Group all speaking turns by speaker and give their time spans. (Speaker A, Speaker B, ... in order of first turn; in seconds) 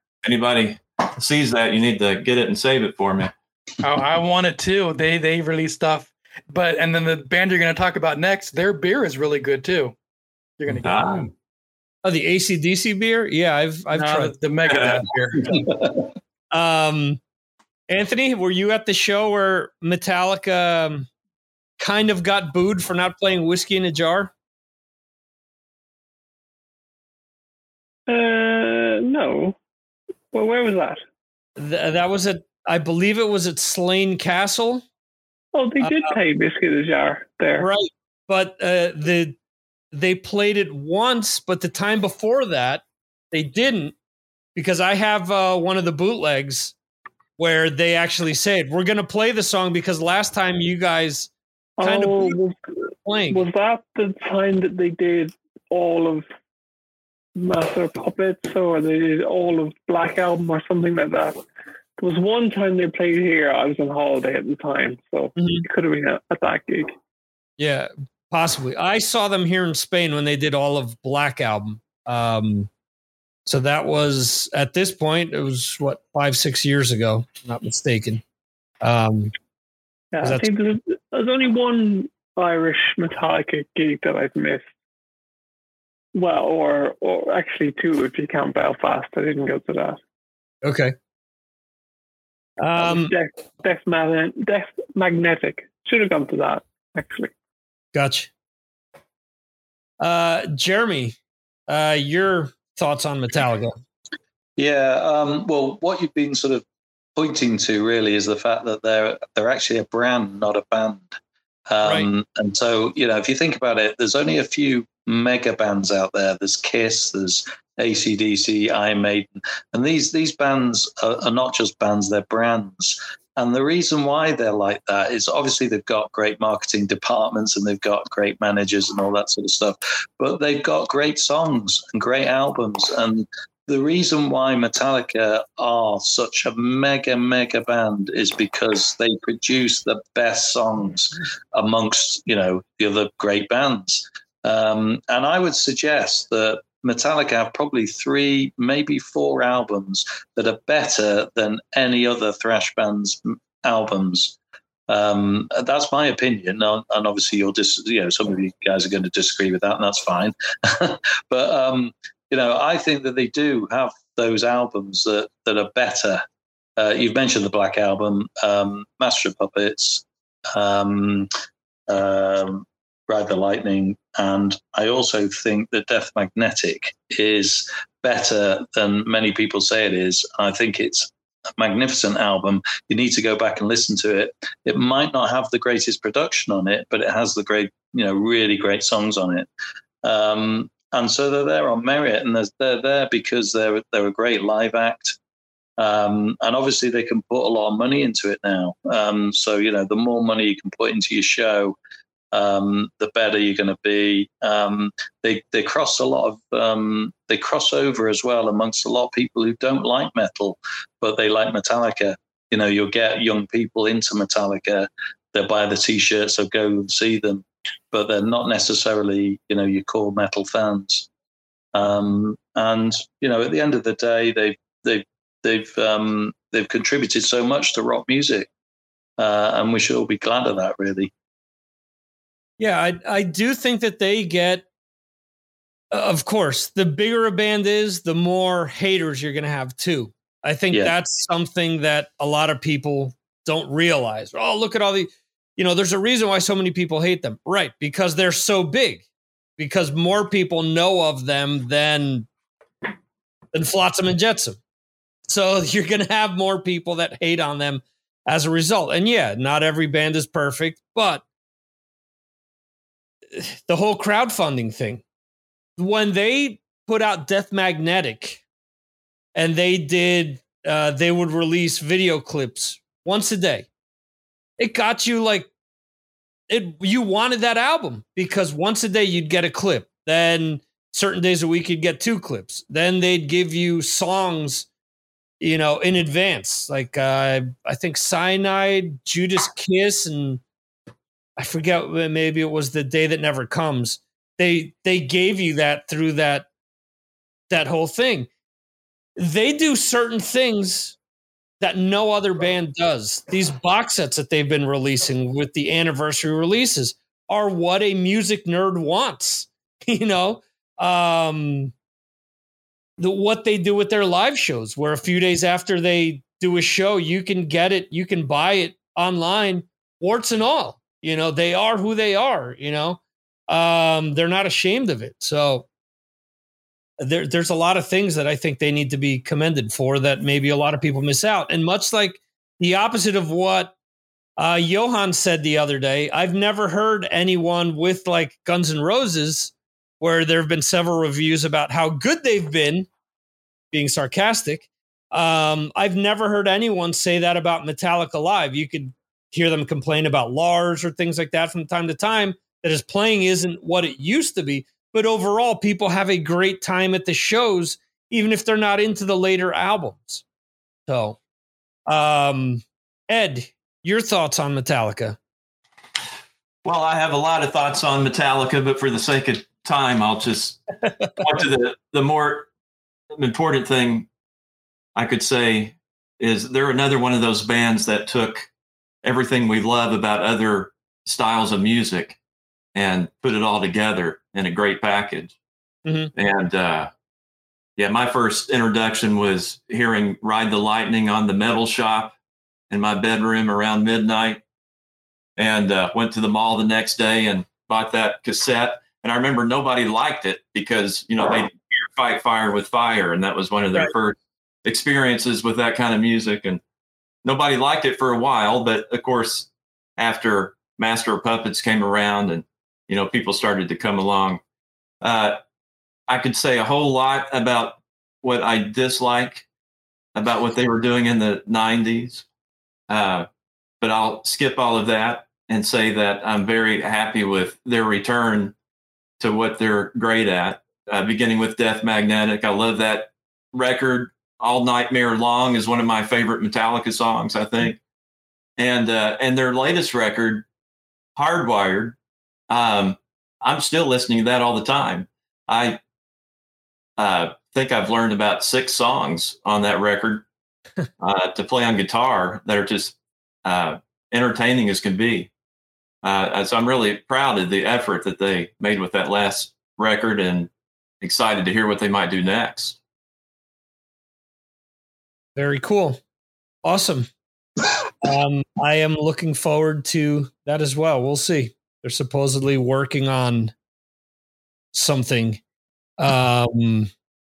Speaker A: 0.2-3.3, 10.7-11.3, 14.7-15.1, 366.6-370.6, 371.2-372.5, 373.1-374.1, 375.0-378.5, 379.0-382.2, 382.8-385.3, 386.1-386.9, 387.8-392.1, 392.7-394.4, 395.4-406.6, 407.2-414.4, 415.0-415.4, 416.1-419.4, 420.1-422.2, 422.9-423.3, 423.8-428.5, 429.2-437.8, 438.6-440.5, 441.2-442.0, 442.5-445.8, 447.0-450.3, 451.0-455.3, 456.0-460.5, 461.0-462.8
Speaker B: 3.8-9.9, 10.6-11.3, 13.9-15.7
Speaker C: 12.0-14.3, 16.5-17.2, 17.9-21.1, 21.8-24.3, 31.6-34.8, 35.8-36.2, 37.6-39.4, 39.9-44.0, 44.6-46.7, 47.4-51.3, 51.8-52.4, 53.0-53.5, 65.4-65.7, 67.6-72.7, 73.5-78.2, 78.8-79.3, 80.2-80.5, 90.6-90.9, 92.6-93.1, 97.9-98.3, 100.0-101.2, 101.7-103.8, 232.6-234.7, 235.9-249.1, 249.6-252.3, 253.5-254.6, 255.3-261.2, 263.3-265.0, 265.8-268.4, 269.4-273.7, 274.6-275.5, 276.5-284.7, 285.4-290.4, 291.4-296.5, 297.5-298.3, 299.2-301.0, 301.6-311.7, 313.0-325.7, 327.0-333.8, 334.4-342.9, 343.7-360.2, 360.9-361.2, 361.9-365.2, 385.9-386.1, 465.4-466.0, 466.6-467.1, 468.0-473.5, 474.7-475.4, 476.0-476.9
Speaker D: 28.1-29.6, 30.3-31.0, 35.5-37.7, 51.8-52.6, 53.3-56.3, 57.4-61.4, 62.0-67.0, 80.1-84.7, 86.1-90.0, 92.8-97.3
Speaker E: 104.6-106.6, 107.2-111.1, 111.7-154.4, 154.9-166.2, 166.8-171.3, 171.9-189.5, 190.0-195.2, 195.8-201.8, 202.3-221.1, 221.7-228.5, 229.2-231.1